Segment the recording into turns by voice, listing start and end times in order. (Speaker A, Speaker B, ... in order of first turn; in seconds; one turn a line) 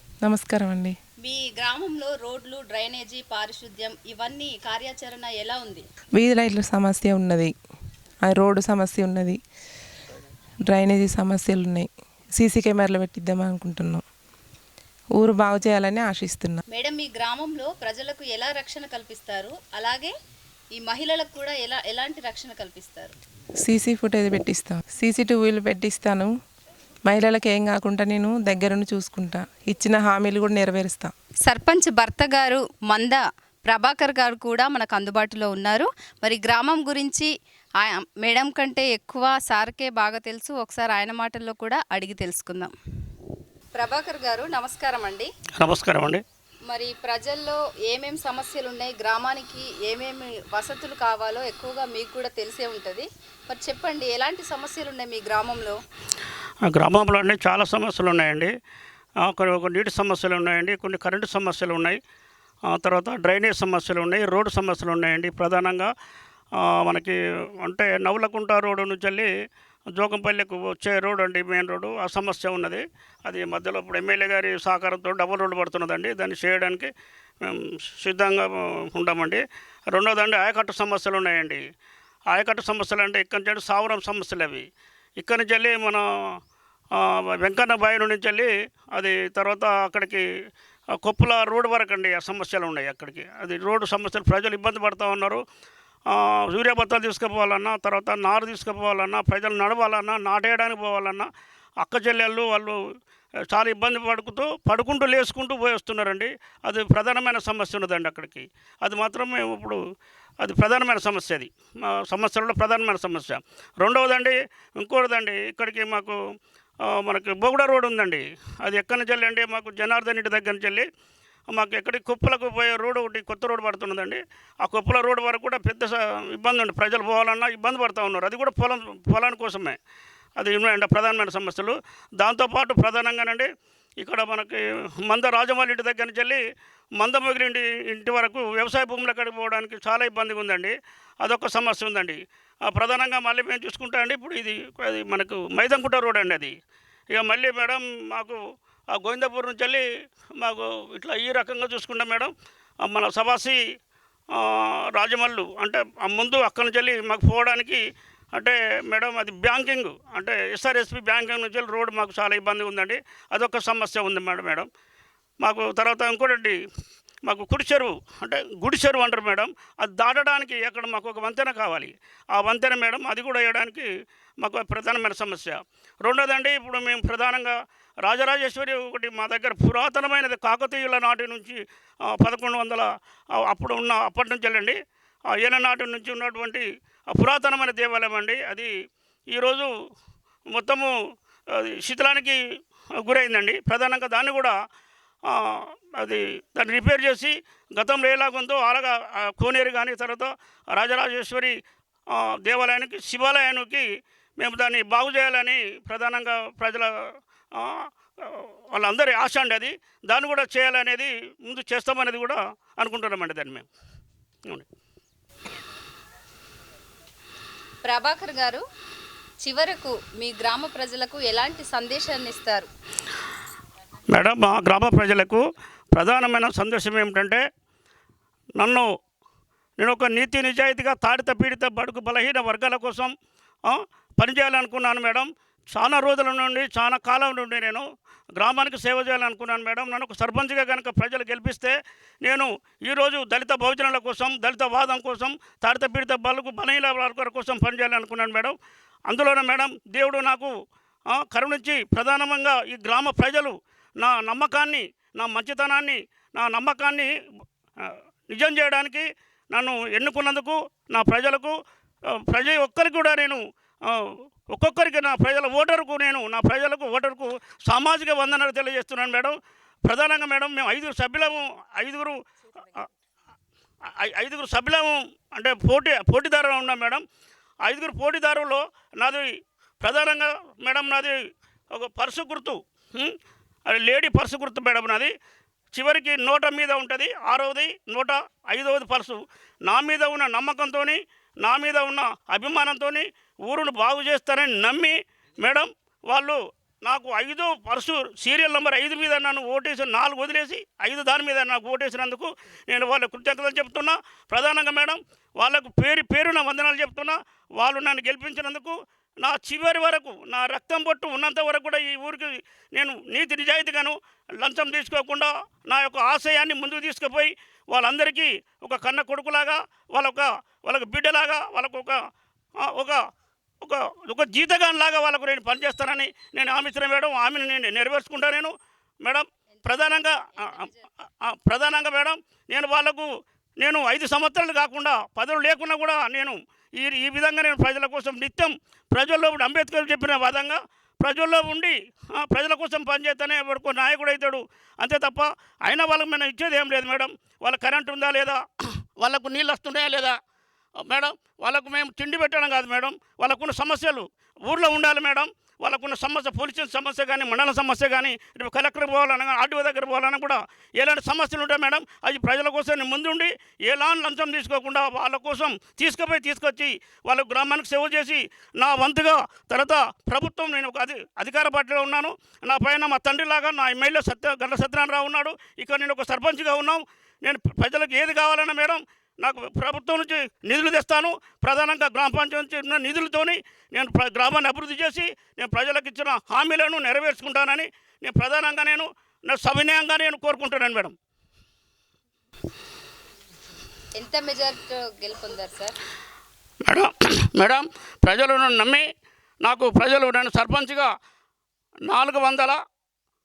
Speaker A: 0.2-1.0
Speaker B: 1.2-5.8
Speaker A: 6.2-7.5
Speaker A: 8.2-9.4
Speaker A: 10.7-14.0
Speaker A: 15.2-16.6
Speaker B: 16.7-20.1
Speaker B: 20.8-23.1
Speaker A: 23.6-26.3
Speaker A: 27.1-31.1
Speaker B: 31.5-42.7
Speaker B: 43.7-45.3
Speaker C: 45.6-46.2
Speaker B: 46.7-55.8
Speaker C: 56.6-58.5
Speaker C: 59.2-62.0
Speaker C: 62.7-65.9
Speaker C: 66.6-69.3
Speaker C: 69.9-76.9
Speaker C: 77.4-81.6
Speaker C: 82.3-84.6
Speaker C: 85.2-86.0
Speaker C: 86.9-90.2
Speaker C: 91.0-95.4
Speaker C: 96.1-101.3
Speaker C: 101.8-102.8
Speaker C: 103.5-109.8
Speaker C: 110.4-116.2
Speaker C: 116.8-120.9
Speaker C: 121.5-129.8
Speaker C: 130.4-133.5
Speaker C: 134.0-136.4
Speaker C: 137.0-146.5
Speaker C: 147.1-148.4
Speaker C: 148.9-149.8
Speaker C: 150.4-152.3
Speaker C: 152.8-153.6
Speaker C: 154.3-157.8
Speaker C: 158.3-164.7
Speaker C: 165.4-166.6
Speaker C: 167.2-173.9
Speaker C: 174.4-182.8
Speaker C: 183.4-184.8
Speaker C: 185.3-188.7
Speaker C: 189.3-189.7
Speaker C: 190.5-190.9
Speaker C: 191.5-192.4
Speaker C: 193.0-194.5
Speaker C: 195.3-201.6
Speaker C: 202.1-203.8
Speaker C: 204.4-206.9
Speaker C: 207.6-213.7
Speaker B: 217.8-218.6
Speaker B: 219.4-222.7
Speaker C: 224.1-227.4
Speaker C: 228.6-228.9
Speaker C: 229.8-233.1
Speaker C: 233.7-237.8
Speaker C: 238.4-248.6
Speaker C: 249.1-250.5
Speaker C: 251.1-257.1
Speaker C: 257.8-261.6
Speaker C: 262.3-272.2
Speaker C: 273.9-277.0
Speaker C: 277.6-279.3
Speaker C: 279.8-281.2
Speaker C: 281.7-285.1
Speaker C: 285.7-322.0
Speaker C: 322.7-323.0
Speaker C: 323.6-330.7
Speaker B: 329.6-330.9
Speaker C: 331.2-333.1
Speaker C: 333.6-348.4
Speaker C: 349.0-350.2
Speaker C: 350.8-390.9
Speaker B: 393.9-395.8
Speaker C: 396.6-398.9
Speaker C: 399.4-400.9
Speaker C: 401.9-402.6